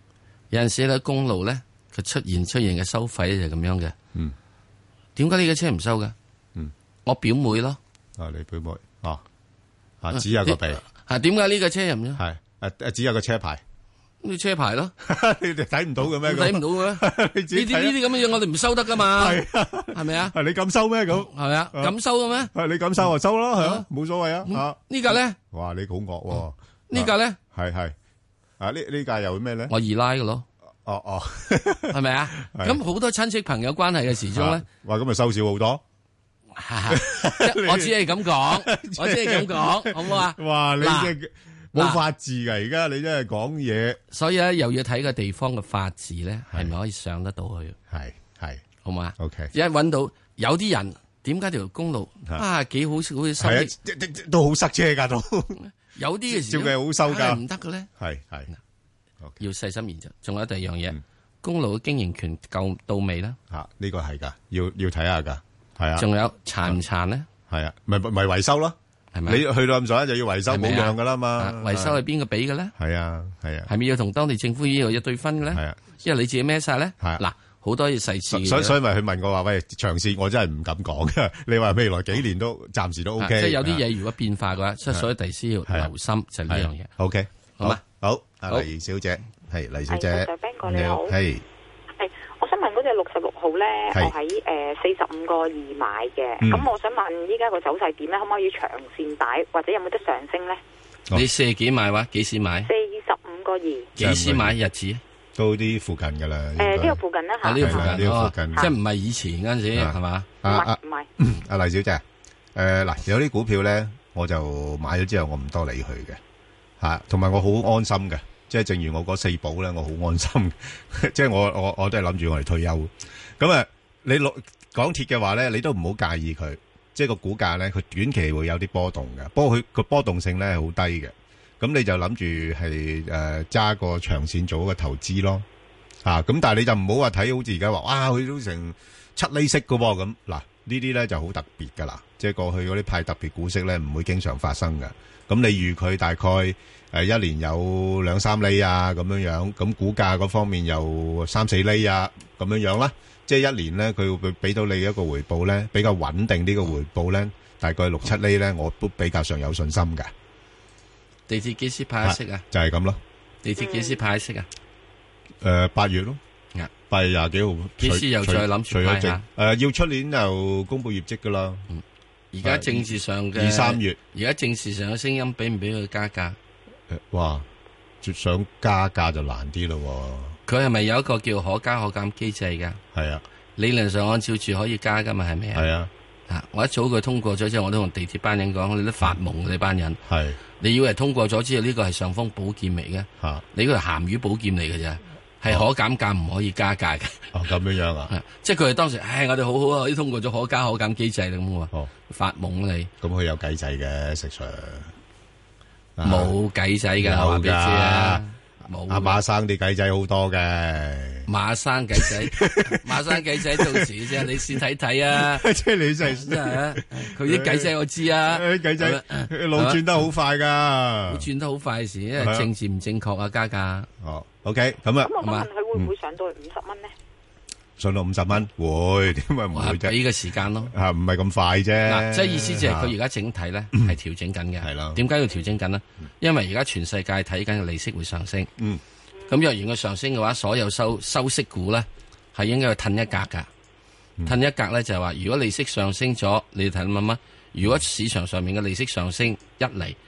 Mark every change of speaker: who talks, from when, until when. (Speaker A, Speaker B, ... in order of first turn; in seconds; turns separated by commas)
Speaker A: 0.5-3.9, Speaker A: 5.2-6.1, Speaker A: 7.0-7.8, Speaker B: 8.2-9.2, Speaker B: 10.0-10.8, Speaker A: 10.1-12.2, Speaker B: 12.2-13.6, Speaker A: 14.2-14.9, Speaker B: 15.0-18.3, Speaker A: 16.0-20.3, Speaker B: 18.9-21.9, Speaker A: 21.1-22.5, Speaker B: 22.5-27.9, Speaker A: 23.6-23.8, Speaker A: 24.4-25.4, Speaker A: 26.9-27.4, Speaker B: 28.6-29.7, Speaker A: 29.7-30.4, Speaker B: 30.8-32.8, Speaker A: 31.9-34.6, Speaker B: 34.3-35.8, Speaker A: 36.5-41.1, Speaker B: 36.9-44.0, Speaker A: 41.7-42.0, Speaker A: 44.1-47.8, Speaker B: 47.9-48.6, Speaker A: 48.8-53.7, Speaker B: 49.2-49.5, Speaker B: 53.4-55.6, Speaker A: 55.6-57.9, Speaker B: 56.3-57.4, Speaker B: 58.0-58.5, Speaker A: 59.4-63.4, Speaker B: 63.5-66.0, Speaker A: 66.0-67.3, Speaker B: 67.5-72.0, Speaker A: 69.1-69.4, Speaker A: 70.5-72.7, Speaker B: 72.8-73.7, Speaker A: 73.7-78.8, Speaker B: 75.5-75.8, Speaker B: 78.3-83.8, Speaker A: 83.2-86.9, Speaker B: 86.5-91.4, Speaker C: 89.9-91.1, Speaker C: 92.0-100.6, Speaker B: 96.4-96.7, Speaker A: 101.1-102.7, Speaker C: 102.6-103.9, Speaker A: 104.0-105.0, Speaker B: 104.0-104.5, Speaker B: 105.3-107.0, Speaker C: 106.6-108.0, Speaker A: 107.4-110.3, Speaker B: 107.6-108.7, Speaker B: 109.7-112.0, Speaker C: 110.4-111.1, Speaker B: 112.5-116.2, Speaker B: 116.8-135.4, Speaker B: 136.0-160.1, Speaker A: 161.3-162.4, Speaker B: 162.0-163.0, Speaker A: 163.4-164.5, Speaker B: 165.4-166.2, Speaker B: 166.9-171.6, Speaker A: 167.8-169.2, Speaker A: 171.7-176.4, Speaker B: 172.4-174.0, Speaker B: 176.9-177.4, Speaker B: 178.0-180.4, Speaker A: 180.5-182.8, Speaker B: 182.9-183.2, Speaker A: 183.6-185.7, Speaker B: 185.5-185.9, Speaker A: 186.3-190.0, Speaker B: 190.1-190.4, Speaker A: 190.6-197.3, Speaker B: 197.3-198.1, Speaker A: 198.1-202.9, Speaker B: 203.0-204.9, Speaker B: 206.0-206.3, Speaker A: 206.0-209.2, Speaker B: 207.0-208.2, Speaker B: 208.9-211.3, Speaker A: 211.3-215.5, Speaker B: 211.9-214.5, Speaker B: 215.1-221.3, Speaker A: 216.0-219.8, Speaker A: 221.1-223.9, Speaker B: 222.2-222.5, Speaker B: 224.0-225.1, Speaker C: 225.0-226.9, Speaker A: 225.2-225.5, Speaker B: 227.8-229.9, Speaker A: 229.5-230.7, Speaker B: 230.7-232.9, Speaker A: 231.8-238.5, Speaker B: 234.6-235.0, Speaker A: 239.3-243.5, Speaker A: 244.2-250.0